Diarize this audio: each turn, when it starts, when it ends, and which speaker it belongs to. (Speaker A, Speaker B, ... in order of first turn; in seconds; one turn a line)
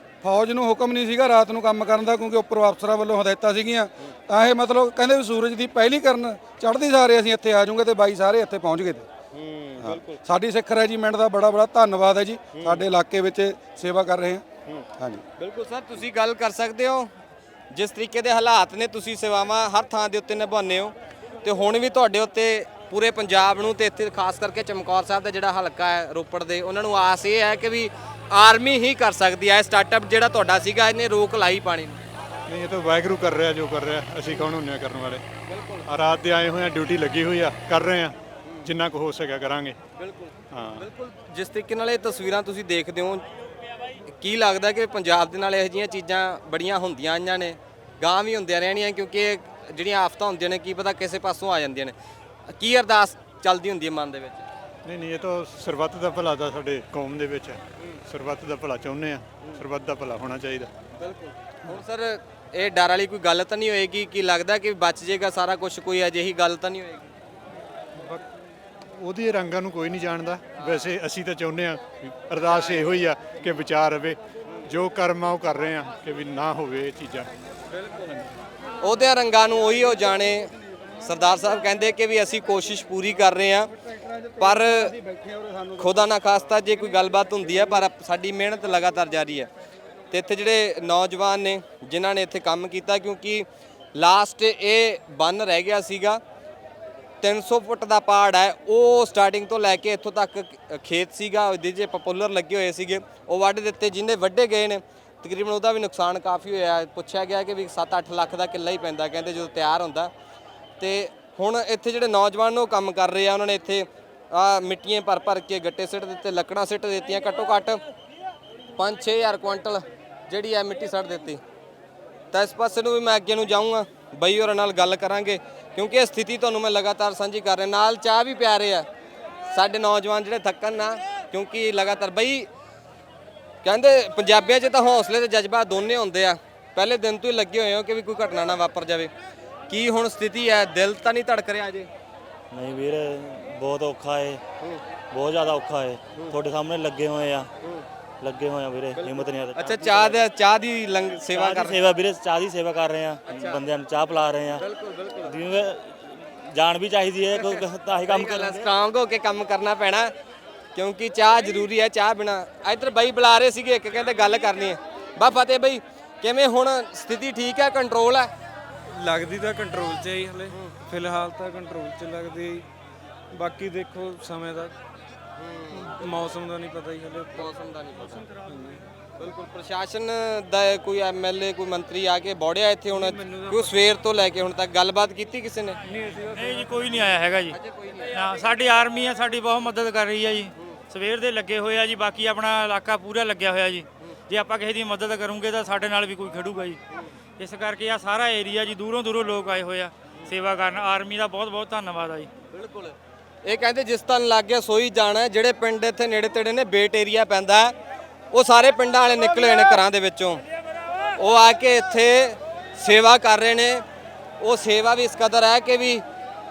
Speaker A: 0.2-9.1
Speaker B: 9.3-10.2
Speaker A: 9.8-14.4
Speaker B: 12.5-12.8
Speaker A: 15.0-15.2
Speaker B: 15.4-17.1
Speaker B: 17.7-32.0
Speaker C: 32.5-35.2
Speaker B: 35.5-35.8
Speaker C: 35.9-39.8
Speaker B: 40.0-43.2
Speaker C: 40.5-40.9
Speaker B: 44.1-51.9
Speaker B: 52.5-54.5
Speaker C: 54.8-60.7
Speaker B: 61.0-67.1
Speaker C: 69.0-77.3
Speaker B: 70.6-70.8
Speaker B: 78.8-83.7
Speaker A: 84.3-86.1
Speaker B: 84.4-84.9
Speaker B: 85.8-89.5
Speaker B: 90.1-96.2
Speaker B: 97.2-110.1
Speaker B: 110.8-117.8
Speaker B: 118.8-121.4
Speaker B: 122.3-128.9
Speaker B: 129.5-132.5
Speaker B: 133.6-139.1
Speaker B: 139.7-141.9
Speaker D: 142.5-144.4
Speaker D: 145.1-147.5
Speaker D: 148.2-150.2
Speaker B: 148.9-151.8
Speaker D: 151.3-154.6
Speaker B: 153.3-153.6
Speaker B: 154.5-155.3
Speaker D: 155.2-158.7
Speaker B: 157.3-160.1
Speaker B: 160.7-168.3
Speaker E: 168.9-172.7
Speaker B: 170.5-170.7
Speaker E: 173.3-174.7
Speaker B: 175.4-176.0
Speaker E: 175.7-177.5
Speaker B: 177.3-178.2
Speaker E: 178.4-178.8
Speaker B: 179.2-185.8
Speaker E: 183.0-183.7
Speaker E: 186.0-186.8
Speaker F: 186.3-187.6
Speaker B: 187.5-188.1
Speaker F: 188.1-196.8
Speaker F: 197.4-202.3
Speaker B: 202.5-207.7
Speaker B: 208.3-210.4
Speaker B: 211.2-213.8
Speaker B: 214.4-216.0